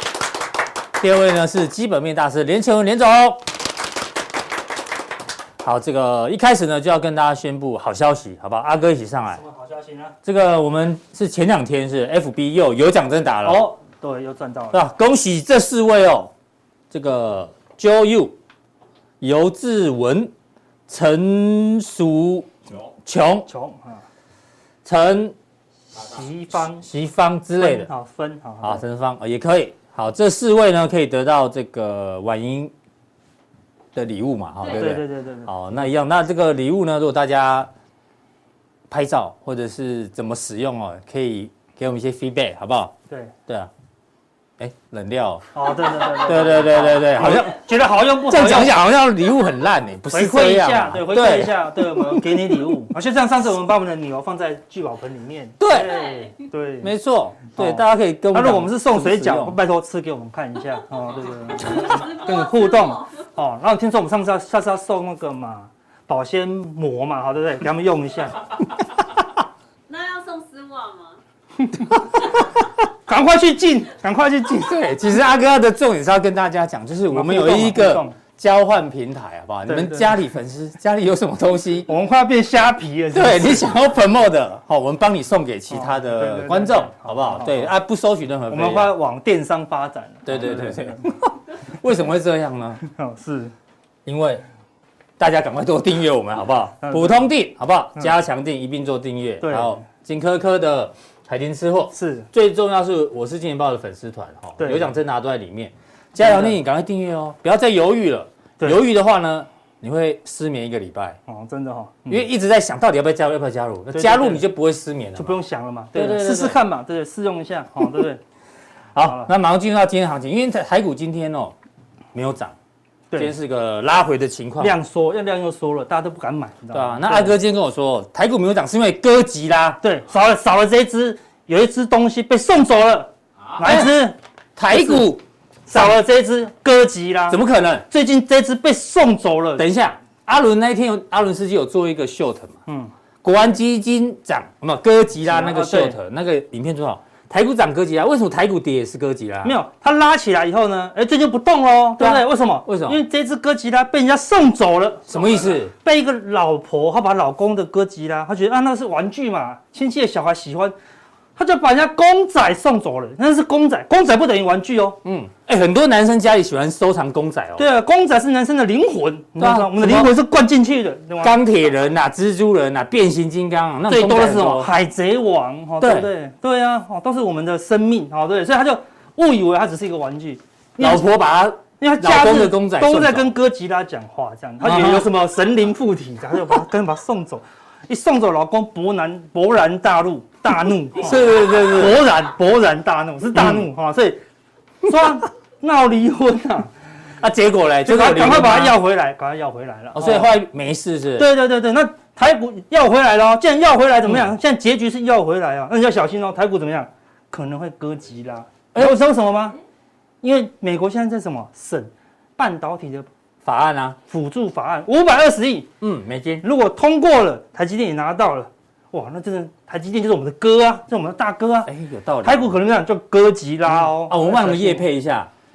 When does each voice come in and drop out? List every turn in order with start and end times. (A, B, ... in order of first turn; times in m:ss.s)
0:01.0-0:03.5 A
0:05.6-0:09.4 A
0:09.3-0:10.2 B
0:10.2-0:13.7 A
0:13.4-0:14.8 B
0:14.7-0:16.3 A
0:16.9-0:18.4 A
0:19.2-0:20.3 A
0:20.9-0:23.5 A
0:23.5-0:24.0 B
0:24.8-0:25.3 A
0:26.0-0:26.8 B
0:26.8-0:27.9 A
0:27.6-0:28.8 B
0:28.6-0:32.7 A
0:33.9-0:37.7 A
0:34.6-0:35.9 B
0:38.9-0:42.9 A
0:44.6-0:47.6 A
0:45.5-0:48.8 B
0:48.2-0:52.6 A
0:50.1-0:56.9 B
0:55.6-0:56.1 A
0:56.8-0:59.6 A
0:57.5-1:08.5 B
1:01.7-1:03.0 C
1:09.9-1:11.2 C
1:13.0-1:14.8 B
1:14.5-1:21.9 A
1:17.1-1:18.2 B
1:19.6-1:20.1 B
1:21.9-1:23.7 B
1:23.1-1:28.9 A
1:25.7-1:27.7 B
1:28.5-1:31.0 B
1:30.2-1:32.8 A
1:32.8-1:33.5 B
1:34.0-1:34.4 A
1:35.2-1:51.2 A
1:36.8-1:37.2 B
1:39.4-1:39.8 B
1:41.9-1:42.3 B
1:44.6-1:44.9 B
1:46.2-1:46.6 B
1:51.3-1:52.3 B
1:52.1-1:55.4 A
1:53.9-1:54.4 B
1:55.2-1:58.2 B
1:55.9-1:56.6 A
1:58.9-2:01.5 A
1:59.0-1:59.3 B
2:02.1-2:02.5 A
2:03.2-2:04.8 A
2:04.6-2:07.4 B
2:06.7-2:09.8 A
2:09.8-2:14.2 B
2:13.6-2:13.9 A
2:14.6-2:16.0 A
2:14.7-2:15.1 B
2:15.7-2:19.6 B
2:17.3-2:17.8 A
2:19.6-2:22.6 A
2:22.7-2:22.9 B
2:23.2-2:29.6 A
2:25.3-2:26.0 B
2:29.4-2:40.7 B
2:32.0-2:33.0 A
2:35.1-2:35.7 A
2:41.4-2:45.0 B
2:45.0-2:47.6 A
2:47.6-2:51.4 B
2:49.4-2:50.2 A
2:51.2-2:54.7 A
2:53.9-3:01.0 B
2:55.8-2:56.1 A
3:00.8-3:03.4 A
3:01.8-3:14.2 B
3:04.6-3:05.1 A
3:10.9-3:12.2 A
3:13.3-3:13.6 A
3:14.8-3:16.7 B
3:17.2-3:18.8 A
3:17.8-3:20.3 B
3:19.9-3:21.3 A
3:21.2-3:29.6 B
3:30.2-3:33.1 B
3:33.4-3:34.0 A
3:34.1-3:35.7 B
3:35.8-3:36.4 A
3:36.4-3:41.7 B
3:41.6-3:42.5 A
3:42.2-3:44.8 B
3:43.7-3:45.3 A